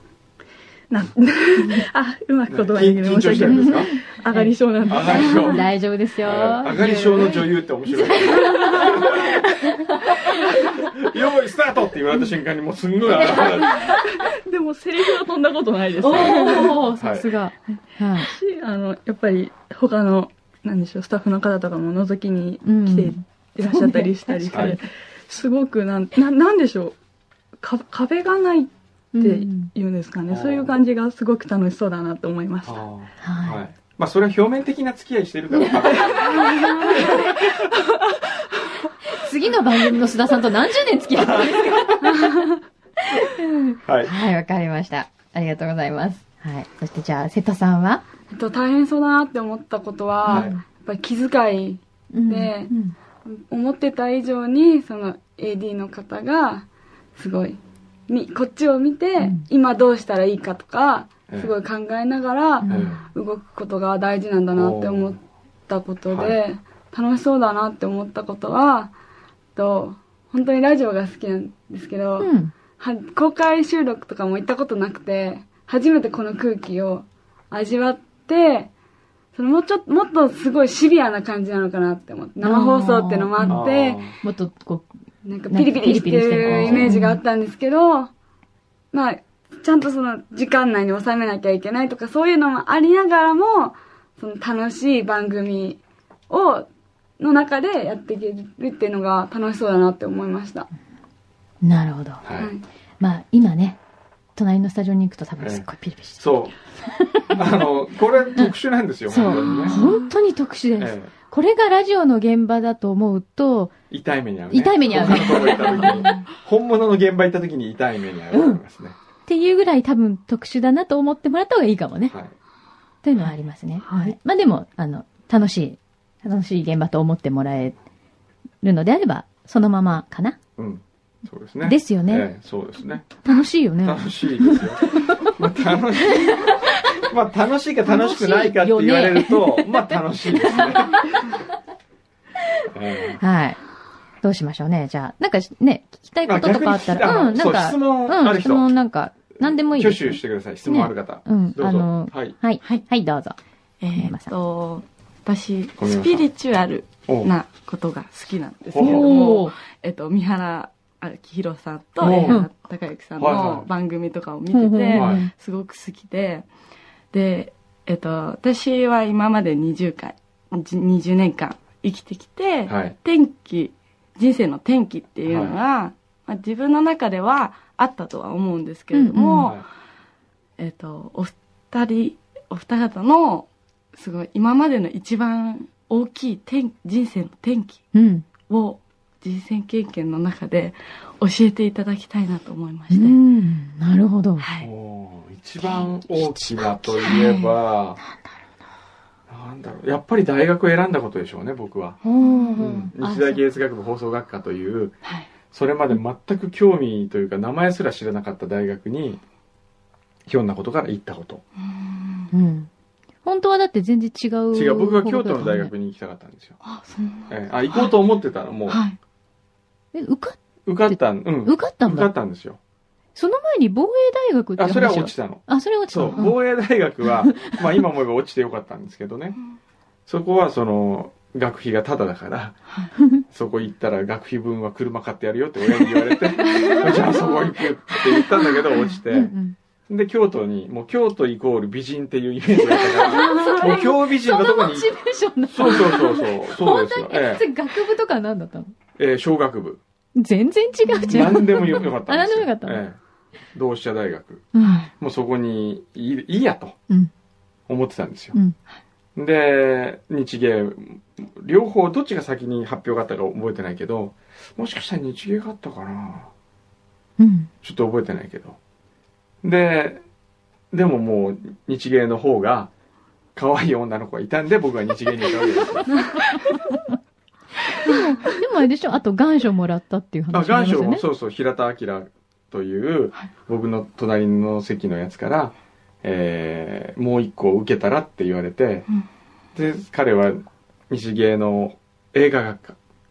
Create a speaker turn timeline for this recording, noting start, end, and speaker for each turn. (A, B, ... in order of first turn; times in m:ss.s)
0:00.9-0:05.6 A
0:02.5-0:03.9 B
0:03.4-0:10.2 C
0:04.9-0:05.6 B
0:06.2-0:09.4 B
0:10.7-0:14.0 B
0:13.3-0:16.8 A
0:16.0-0:18.3 C
0:16.1-0:17.3 B
0:17.7-0:27.0 A
0:22.6-0:24.8 C
0:24.5-0:24.8 B
0:27.6-0:32.8 A
0:29.1-0:29.7 C
0:30.3-0:30.8 B
0:32.6-0:37.7 B
0:33.2-0:33.6 C
0:35.5-0:36.5 C
0:36.4-0:37.0 D
0:39.1-0:42.5 C
0:41.2-0:42.1 B
0:43.0-0:48.0 C
0:43.8-0:44.1 B
0:48.3-0:52.7 D
0:50.3-0:50.5 B
0:50.3-0:50.6 C
0:52.1-0:53.0 C
0:53.3-1:08.9 D
0:59.2-0:59.5 C
1:01.3-1:01.5 B
1:02.6-1:03.0 C
1:02.7-1:03.0 B
1:04.6-1:05.2 B
1:06.1-1:06.4 B
1:09.6-1:18.7 D
1:12.2-1:12.5 C
1:19.3-1:24.1 D
1:22.4-1:23.6 C
1:23.5-1:24.2 B
1:24.2-1:24.9 C
1:25.2-1:28.1 D
1:25.5-1:27.2 C
1:26.4-1:26.9 B
1:28.9-1:36.7 D
1:37.2-1:40.7 D
1:41.6-1:42.2 C
1:42.2-1:42.5 B
1:42.4-1:42.6 D
1:43.0-1:43.8 C
1:44.4-1:46.2 C
1:45.4-1:46.5 B
1:46.9-1:47.6 C
1:47.3-1:49.8 B
1:49.1-1:53.7 C
1:49.2-1:50.1 E
1:50.8-1:51.1 B
1:53.9-1:59.0 B
1:54.5-1:56.1 C
1:55.2-1:56.3 E
1:58.3-1:58.6 C
1:59.3-2:02.2 C
2:03.0-2:07.8 C
2:08.6-2:10.4 C
2:10.6-2:13.2 B
2:11.6-2:12.3 C
2:13.2-2:15.3 C
2:13.8-2:21.2 B
2:16.1-2:16.6 C
2:17.8-2:21.2 C
2:22.7-2:23.2 B
2:23.2-2:23.6 C
2:24.2-2:33.4 C
2:26.2-2:28.6 B
2:29.7-2:32.4 B
2:33.8-2:46.5 E
2:33.9-2:34.3 C
2:35.8-2:36.3 B
2:37.1-2:37.3 B
2:38.7-2:39.1 B
2:38.8-2:39.6 C
2:42.0-2:42.4 B
2:42.2-2:42.5 C
2:43.2-2:43.7 B
2:44.5-2:45.3 C
2:44.9-2:45.2 B
2:47.1-2:59.6 E
2:52.7-2:53.0 B
2:55.3-2:55.6 B
2:58.9-2:59.5 C
3:00.6-3:07.9 E
3:07.9-3:08.3 C
3:08.5-3:13.2 E
3:12.9-3:14.5 C
3:14.4-3:14.7 E
3:14.6-3:18.0 B
3:15.6-3:18.4 E
3:16.8-3:17.1 C
3:19.3-3:22.0 B
3:22.0-3:23.4 C
3:22.2-3:22.6 E
3:22.6-3:25.0 B
3:25.5-3:29.2 B
3:30.3-3:31.4 B
3:31.6-3:32.3 E
3:32.3-3:32.7 C
3:33.2-3:35.7 C
3:34.5-3:36.6 B
3:36.6-3:38.0 E
3:37.3-3:38.8 B
3:38.7-3:39.0 E
3:39.9-3:42.1 C
3:40.7-3:42.6 B
3:43.2-3:46.4 C
3:44.6-3:49.4 B
3:50.1-3:52.6 B
3:53.2-3:59.3 B
3:55.8-3:57.3 C
3:56.5-3:56.9 E
3:57.9-3:58.6 C
3:59.1-3:59.6 C
3:59.9-4:04.9 B
4:02.6-4:08.7 C
4:05.5-4:07.4 B
4:09.0-4:09.8 B
4:10.2-4:12.8 C
4:10.9-4:11.4 E
4:11.1-4:13.0 B
4:13.5-4:16.8 B
4:14.5-4:14.9 C
4:14.6-4:14.9 E
4:17.7-4:18.4 B
4:19.2-4:26.3 B
4:27.2-4:27.5 C
4:27.6-4:28.6 B
4:29.4-4:30.0 B
4:30.7-4:32.7 B
4:33.4-4:36.0 B
4:37.7-4:41.0 C
4:40.3-4:48.9 B
4:49.6-4:52.8 B